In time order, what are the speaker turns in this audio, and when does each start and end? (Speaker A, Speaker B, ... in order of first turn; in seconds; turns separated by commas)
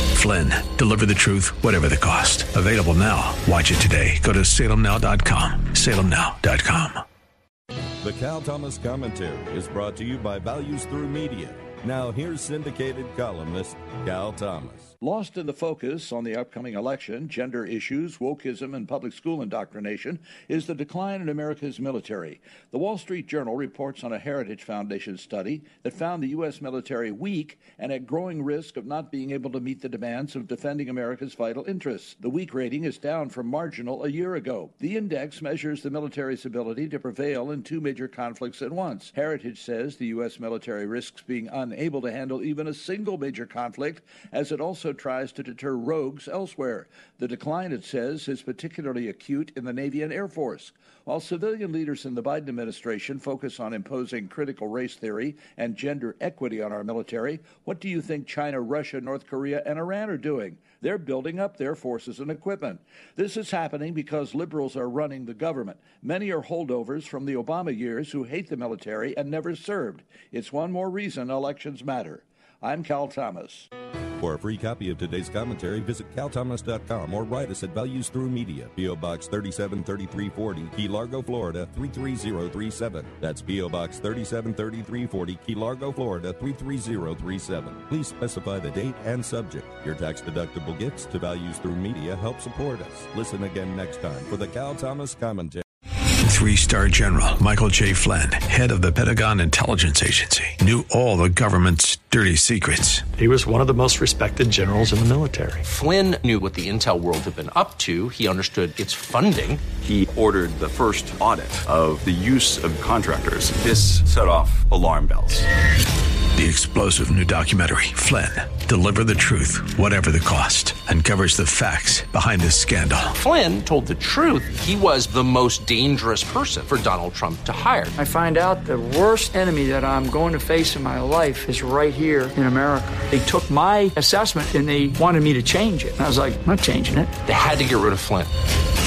Speaker A: 0.1-7.0, Speaker B: 8.0-14.9, Speaker C: 15.0-73.7, Speaker B: 74.2-95.6, Speaker A: 96.2-103.0, Speaker D: 103.2-105.6, Speaker E: 105.6-109.6, Speaker F: 109.8-115.4, Speaker A: 116.3-123.1, Speaker E: 123.1-127.9, Speaker G: 128.0-137.1, Speaker E: 137.2-138.3